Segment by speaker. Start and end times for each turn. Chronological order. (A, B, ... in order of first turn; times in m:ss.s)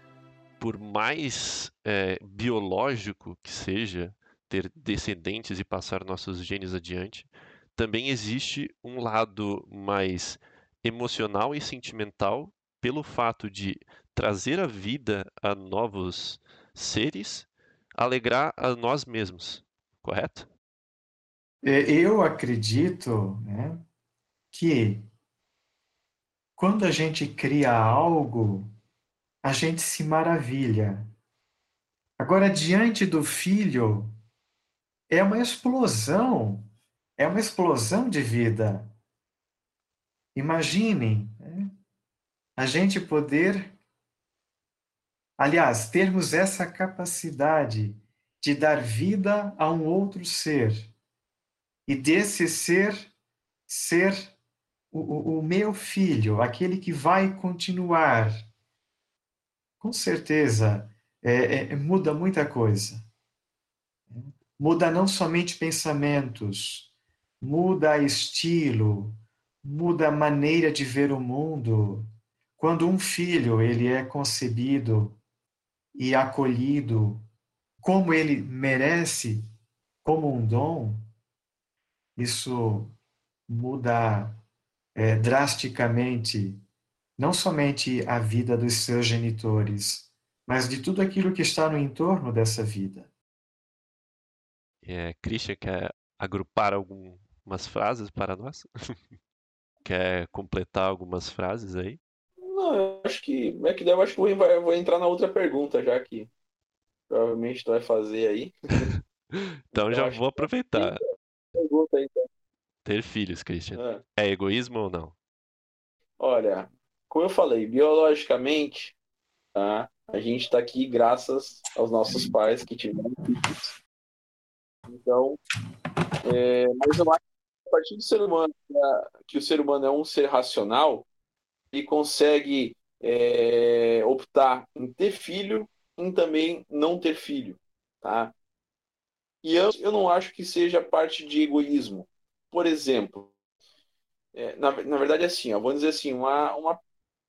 0:00.6-0:20.5 A
0:21.6-0:23.9 B
0:24.5-0:25.1 B
0:26.6-0:28.7 B
0:29.4-0:31.1 B
0:32.2-0:34.2 B
0:35.1-0:38.9 B
0:40.4-0:41.7 B
0:42.6-0:43.7 B
0:45.4-0:50.9 B
0:51.9-0:53.1 B
0:53.7-0:54.4 B
0:54.9-0:58.5 B
0:59.8-1:03.1 B
1:04.1-1:12.1 B
1:12.6-1:15.2 B
1:15.9-1:17.3 B
1:17.8-1:19.4 B
1:20.0-1:21.1 B
1:22.2-1:23.0 B
1:23.5-1:24.4 B
1:24.9-1:26.6 B
1:27.2-1:33.1 B
1:34.8-1:39.0 A
1:39.8-1:42.0 A
1:42.4-1:46.3 C
1:47.1-1:48.9 C
1:49.3-1:51.0 A
1:49.7-1:51.0 C
1:51.6-1:52.3 C
1:52.8-1:55.2 A
1:53.7-1:54.0 C
1:56.2-1:59.0 C
1:59.6-2:03.7 C
2:04.9-2:05.4 C
2:06.2-2:11.1 C
2:11.7-2:18.3 C
2:19.4-2:23.3 C
2:24.3-2:26.8 C